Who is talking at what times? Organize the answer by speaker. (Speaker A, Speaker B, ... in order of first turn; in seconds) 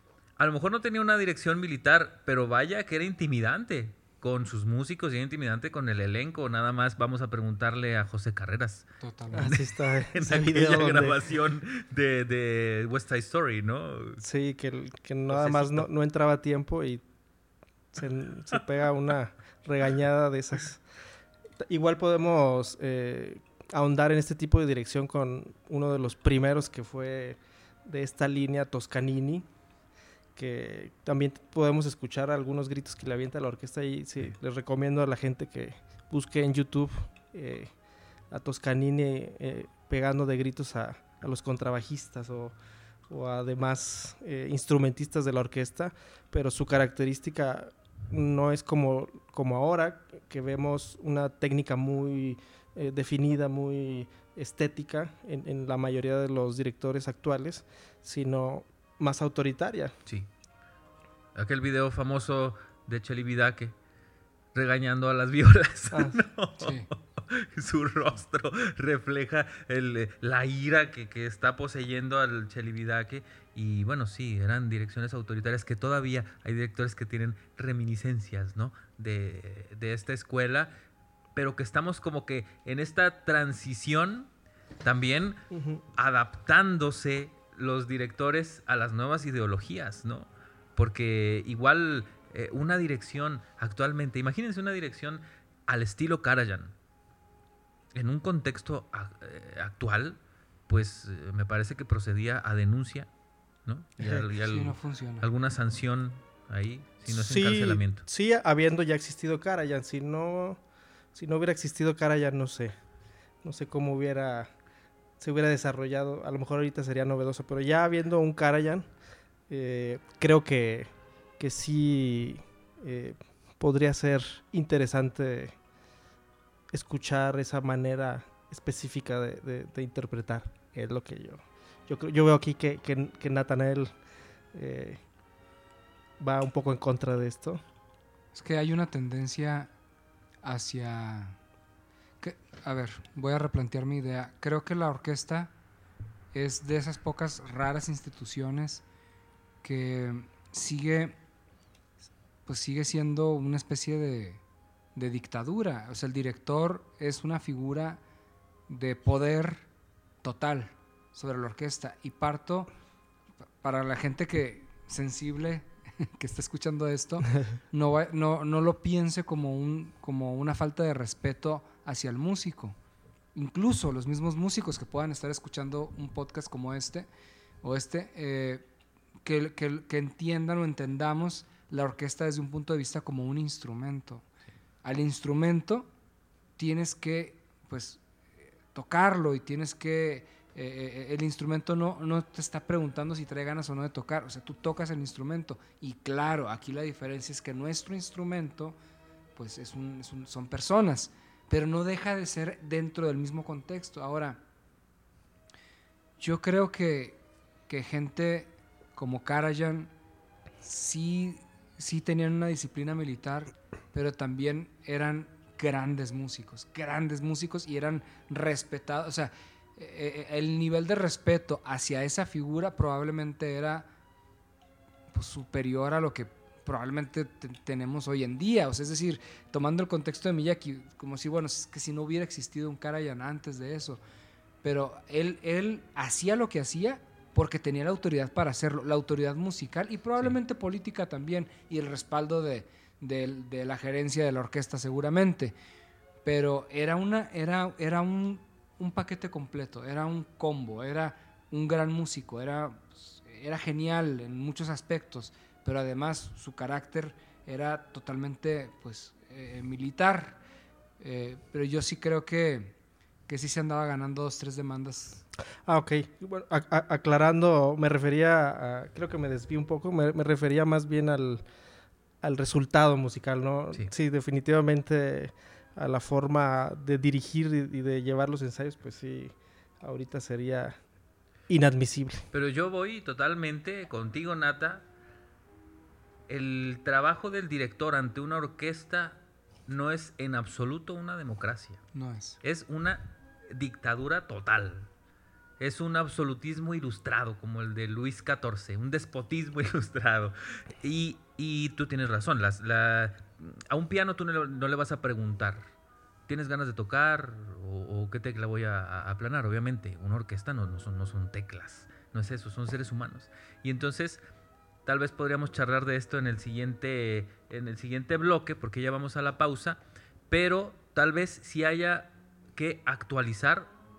Speaker A: 0.4-14.2, 15.3-15.9, 61.3-63.7, 64.5-80.7, 81.3-84.3, 84.8-85.4, 86.0-96.7, 97.9-103.1, 103.7-108.0, 282.3-284.8, 286.3-291.8, 292.4-294.9, 295.6-305.7, 306.3-314.2, 314.8-323.7
Speaker B: 9.0-9.5, 66.6-66.9, 104.4-105.2, 138.3-139.7, 140.4-141.4, 142.2-145.5, 146.3-148.8, 149.6-151.2, 152.4-154.4, 154.9-158.0, 158.7-159.7, 160.2-162.7, 163.6-172.8, 173.3-177.1, 177.6-178.6, 179.2-184.2, 184.8-185.9, 186.6-188.0, 188.7-198.8, 199.3-204.4, 206.2-209.9, 210.6-223.9, 225.1-234.0, 234.6-245.5, 246.2-260.4, 261.0-262.8, 263.3-265.2, 291.9-292.4
Speaker C: 9.3-11.2, 14.2-17.0, 17.9-20.8, 21.6-29.4, 30.4-37.7, 38.3-42.5, 43.1-59.9, 65.9-66.2, 85.5-85.8, 107.1-110.6, 111.1-112.7, 113.4-114.5, 115.2-118.9, 119.5-125.5, 126.7-133.9, 134.5-135.0, 136.2-137.6, 265.6-271.4, 272.2-280.8, 281.5-282.2